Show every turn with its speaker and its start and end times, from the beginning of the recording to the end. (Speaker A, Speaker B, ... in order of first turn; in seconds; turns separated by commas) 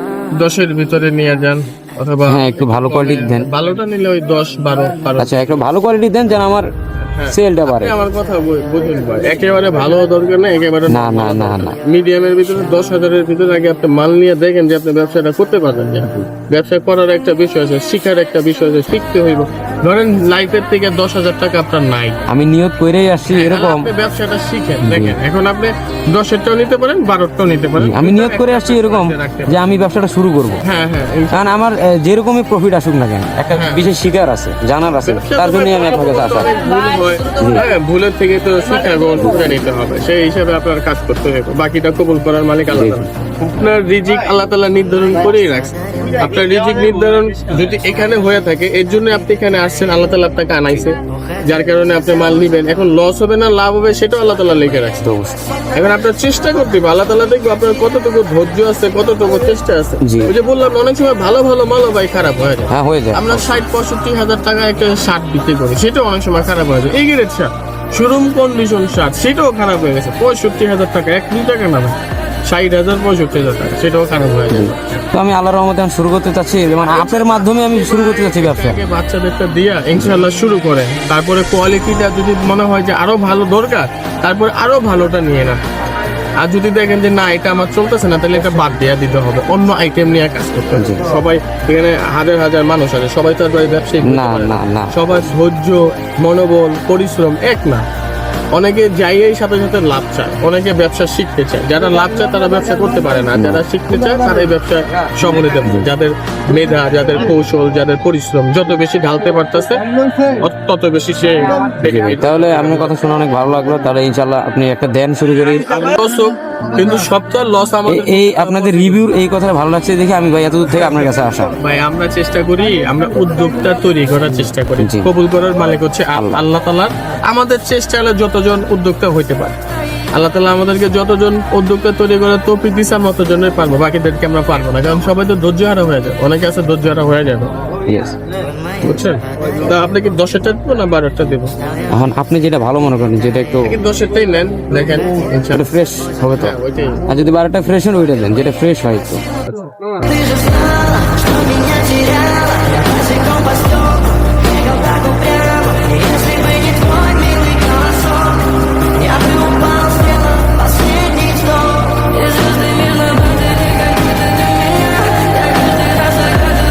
Speaker A: 0.4-5.6, Speaker B: 2.3-3.5, Speaker B: 5.2-6.7, Speaker A: 7.1-22.2, Speaker B: 7.3-8.0, Speaker B: 10.9-11.8, Speaker B: 22.3-23.9, Speaker A: 23.3-29.6, Speaker B: 24.8-25.2, Speaker B: 27.8-30.6, Speaker A: 30.6-31.4, Speaker B: 31.3-36.5, Speaker A: 33.5-33.9, Speaker A: 35.0-55.1, Speaker B: 37.4-37.6, Speaker B: 42.7-43.0, Speaker B: 55.0-55.4, Speaker A: 55.7-72.0, Speaker B: 60.0-60.3, Speaker B: 62.7-63.6, Speaker A: 72.5-75.0, Speaker B: 74.5-78.8, Speaker A: 76.8-85.6, Speaker A: 86.4-97.8, Speaker B: 90.8-91.0, Speaker B: 94.0-95.1, Speaker A: 98.5-112.9, Speaker B: 103.3-103.6, Speaker B: 111.8-116.0, Speaker A: 115.8-119.0, Speaker B: 117.9-121.5, Speaker A: 120.8-129.6, Speaker B: 124.8-125.1, Speaker B: 126.2-126.4, Speaker A: 130.2-137.5, Speaker B: 137.9-138.2, Speaker A: 138.8-141.5, Speaker B: 141.9-143.8, Speaker A: 143.7-145.7, Speaker B: 145.5-146.5, Speaker A: 146.4-147.0, Speaker B: 147.1-149.2, Speaker A: 149.5-150.1, Speaker C: 150.1-158.4, Speaker C: 159.0-163.8, Speaker C: 165.2-166.0